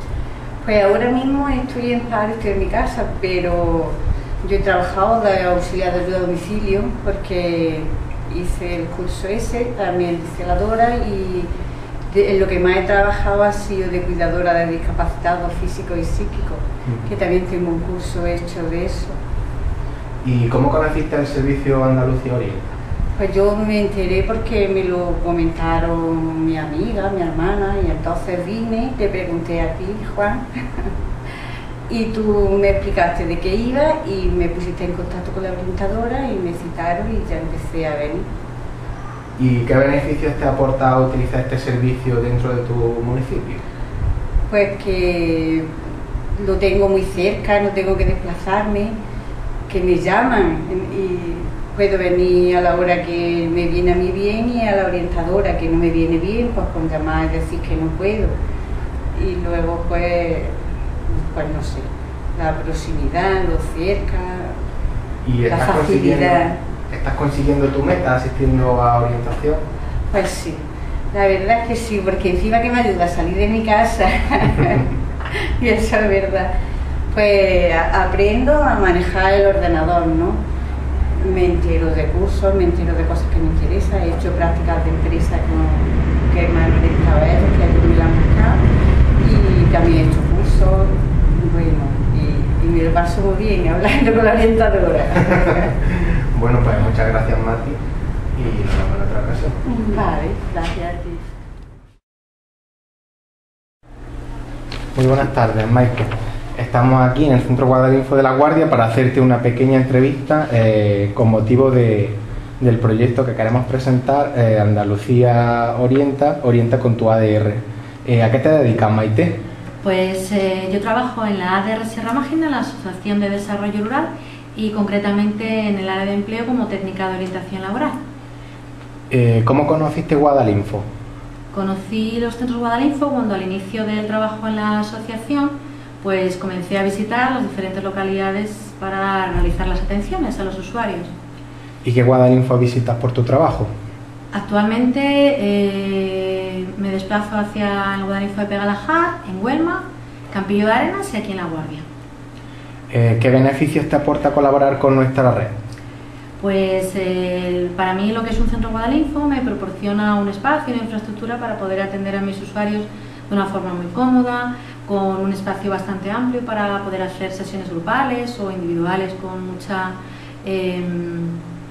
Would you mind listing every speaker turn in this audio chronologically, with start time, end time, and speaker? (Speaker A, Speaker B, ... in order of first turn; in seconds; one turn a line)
Speaker A: 0.6-11.5
Speaker A: 12.1-19.2
Speaker B: 20.2-22.6
Speaker A: 23.2-30.9
Speaker A: 31.9-38.3
Speaker B: 39.4-43.6
Speaker A: 44.5-45.7
Speaker A: 46.4-49.0
Speaker A: 49.7-58.4
Speaker A: 59.1-60.5
Speaker A: 61.1-64.5
Speaker B: 65.2-69.6
Speaker A: 65.5-66.6
Speaker A: 70.1-70.6
Speaker A: 71.1-76.5
Speaker A: 77.1-80.4
Speaker A: 81.2-88.7
Speaker A: 89.2-95.7
Speaker B: 95.7-97.8
Speaker B: 98.3-99.6
Speaker A: 99.7-101.2
Speaker B: 105.0-119.4
Speaker C: 119.8-128.0
Speaker B: 129.1-130.9
Speaker C: 131.5-141.1
Speaker B: 141.8-143.7
Speaker C: 144.3-151.8
Speaker B: 152.9-155.5
Speaker C: 156.4-171.4